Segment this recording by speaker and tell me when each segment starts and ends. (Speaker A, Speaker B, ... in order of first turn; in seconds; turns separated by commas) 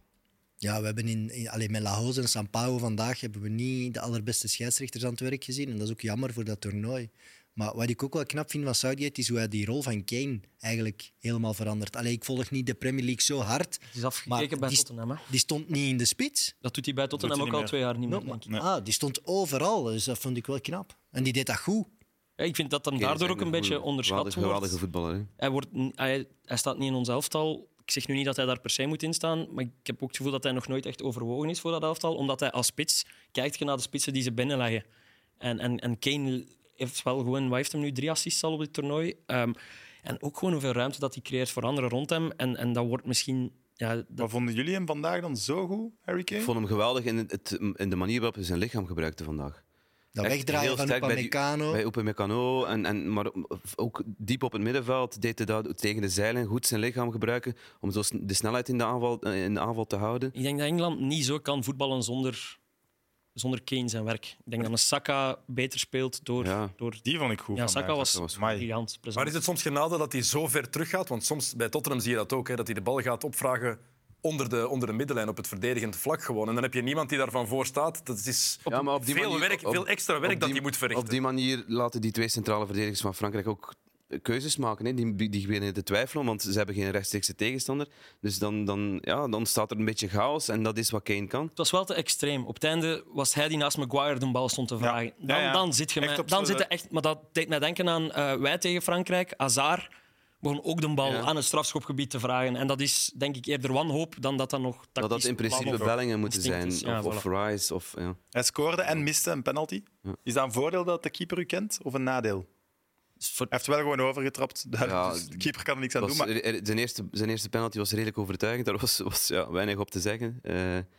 Speaker A: 0.6-16.5, Speaker B: 13.9-15.2, Speaker B: 16.6-18.5, Speaker C: 17.2-17.8, Speaker A: 18.1-21.9, Speaker B: 22.4-24.8, Speaker D: 23.0-25.3, Speaker B: 25.4-34.8, Speaker B: 35.4-44.3, Speaker C: 44.2-46.5, Speaker D: 46.4-49.6, Speaker A: 50.1-51.8, Speaker D: 50.2-60.3, Speaker B: 60.3-62.6, Speaker B: 63.3-67.0, Speaker D: 66.4-66.7, Speaker C: 67.0-68.7, Speaker B: 67.5-69.4, Speaker D: 68.0-68.3, Speaker E: 69.2-81.2, Speaker D: 78.7-91.5, Speaker B: 91.5-99.9, Speaker C: 94.8-96.7, Speaker B: 100.4-107.2, Speaker D: 101.0-101.3, Speaker D: 105.0-108.2, Speaker C: 105.5-106.0, Speaker C: 108.3-112.5, Speaker B: 113.2-113.5, Speaker C: 113.5-116.3, Speaker D: 114.8-115.5, Speaker D: 116.0-120.8